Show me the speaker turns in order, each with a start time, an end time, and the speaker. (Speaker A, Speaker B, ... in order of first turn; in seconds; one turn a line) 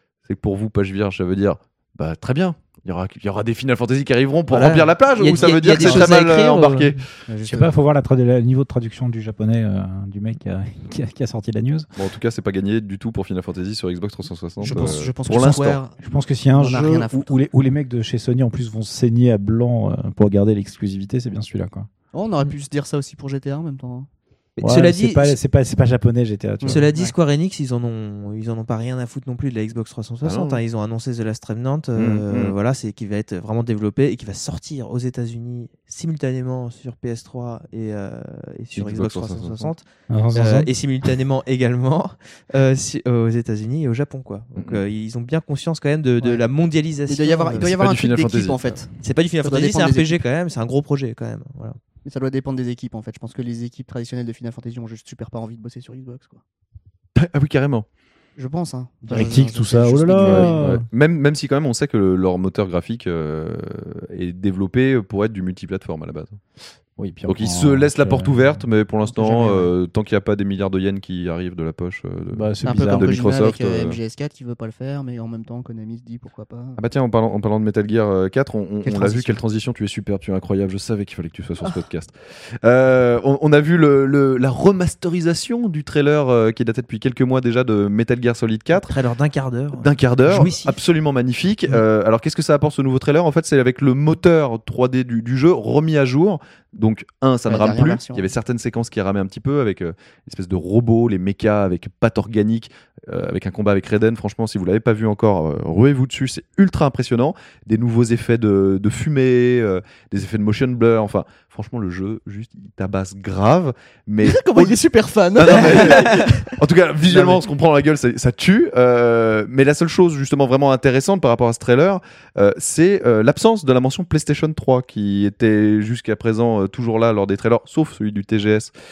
Speaker A: 0.3-7.1
Speaker B: 4.5-7.0
Speaker C: 5.8-6.1
Speaker C: 7.3-7.7
Speaker D: 7.4-11.9
Speaker A: 12.0-15.8
Speaker C: 14.6-16.0
Speaker D: 16.0-21.9
Speaker C: 16.5-17.3
Speaker C: 22.1-24.1
Speaker B: 24.6-25.4
Speaker D: 24.6-26.8
Speaker C: 26.6-27.1
Speaker B: 26.6-39.8
Speaker A: 30.2-30.6
Speaker A: 32.0-32.5
Speaker A: 38.7-39.7
Speaker D: 40.1-40.7
Speaker B: 40.4-47.7
Speaker A: 44.6-44.8
Speaker C: 47.1-48.9
Speaker A: 47.6-48.6
Speaker B: 49.0-51.8
Speaker C: 49.4-50.2
Speaker C: 52.0-56.4
Speaker A: 57.2-57.9
Speaker C: 58.4-60.6
Speaker D: 59.1-60.8
Speaker A: 60.2-66.4
Speaker D: 67.0-68.7
Speaker A: 67.3-74.0
Speaker C: 69.1-69.7
Speaker D: 72.3-73.2
Speaker C: 72.6-76.8
Speaker A: 76.8-88.9
Speaker C: 78.8-79.4
Speaker B: 88.7-90.8
Speaker A: 89.7-114.8
Speaker C: 97.5-98.2
Speaker C: 114.2-117.5
Speaker A: 115.4-128.7
Speaker B: 115.7-116.3